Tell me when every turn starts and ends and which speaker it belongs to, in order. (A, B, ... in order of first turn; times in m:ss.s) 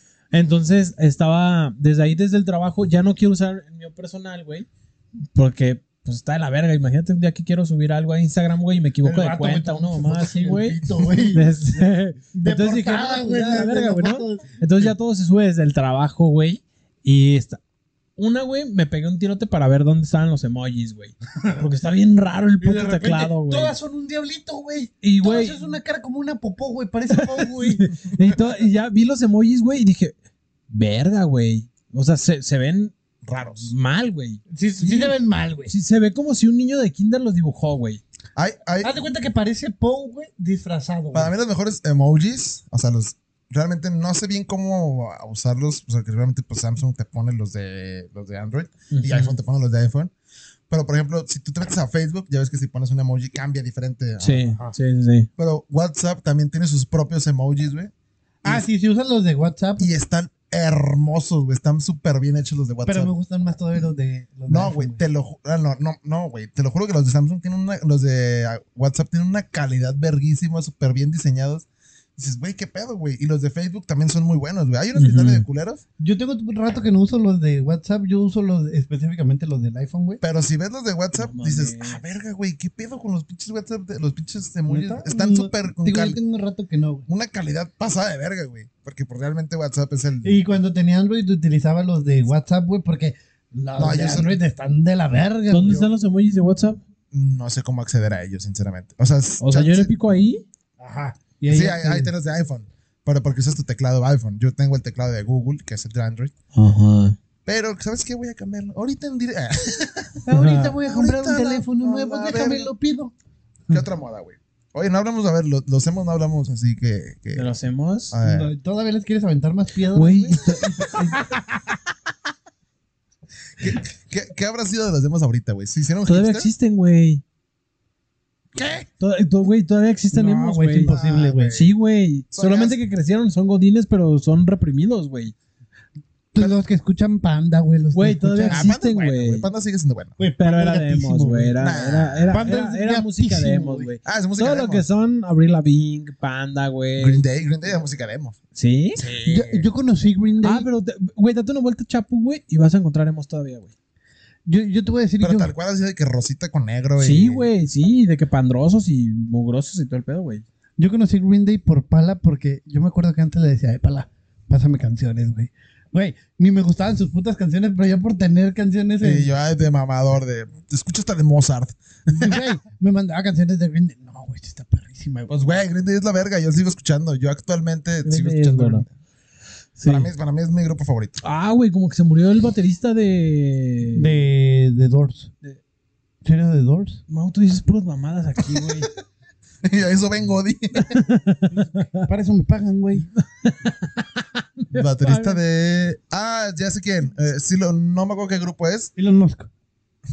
0:00.3-0:04.7 A
0:05.4-0:17.6 A
0:09.0-0:11.5 B
0:11.0-0:11.3 C
0:12.3-0:14.6 B
0:18.2-0:23.8 A
0:22.6-0:27.9 B
0:25.0-0:25.8 A
0:27.1-0:30.2 A
0:30.7-0:35.2 A
0:33.2-0:33.7 C
0:34.5-0:35.7 B
0:35.7-0:38.0 A
0:38.4-0:38.9 C
0:38.8-0:41.3 B
0:41.1-0:50.1 C
0:48.9-0:49.4 A
0:50.7-0:54.6 C
0:54.2-0:55.3 A
0:55.4-0:57.9 C
0:58.4-0:59.9 B
0:59.8-1:03.1 C
1:02.9-1:05.0 B
1:04.5-1:15.8 C
1:15.0-1:15.5 A
1:16.0-1:20.2 B
1:20.2-1:26.2 C
1:21.2-1:22.0 A
1:24.7-1:27.1 B
1:27.1-1:30.4 C
1:30.2-1:35.9 B
1:33.8-1:34.4 C
1:35.5-1:36.8 A
1:37.1-1:39.9 C
1:39.4-1:40.4 A
1:40.8-1:42.1 B
1:41.5-1:46.3 C
1:46.5-1:47.2 A
1:47.4-1:50.3 C
1:50.3-1:53.1 B
1:50.3-1:50.8 A
1:50.8-1:52.7 C
1:53.7-1:57.5 C
1:57.4-1:58.2 A
1:58.1-1:58.5 C
1:58.2-2:01.8 B
1:59.9-2:01.2 A
2:03.6-2:06.5 C
2:06.1-2:07.2 A
2:08.6-2:08.9 C
2:09.0-2:10.9 A
2:10.1-2:11.6 B
2:10.9-2:11.7 C
2:11.5-2:15.4 A
2:12.3-2:12.8 C
2:16.3-2:18.7 B
2:17.9-2:19.5 A
2:18.5-2:20.2 C
2:20.2-2:21.6 B
2:20.4-2:27.2 A
2:21.6-2:22.5 C
2:22.3-2:23.9 B
2:24.0-2:24.9 C
2:27.0-2:28.4 C
2:28.6-2:29.0 A
2:29.0-2:29.7 C
2:29.2-2:30.7 B
2:30.4-2:33.7 A
2:34.5-2:35.5 B
2:35.2-2:37.5 C
2:37.0-2:40.4 A
2:40.8-2:49.3 B
2:49.0-2:52.5 C
2:52.1-2:55.4 B
2:55.3-2:58.9 C
2:58.0-2:58.9 A
2:59.8-3:00.1 A
2:59.8-3:01.2 C
3:01.2-3:04.1 A
3:03.9-3:05.3 B
3:06.2-3:07.0 B
3:07.1-3:08.9 A
3:08.4-3:08.8 C
3:09.6-3:11.0 C
3:10.8-3:12.1 A
3:11.5-3:13.1 B
3:13.2-3:15.4 A
3:14.7-3:18.9 C
3:19.0-3:19.5 B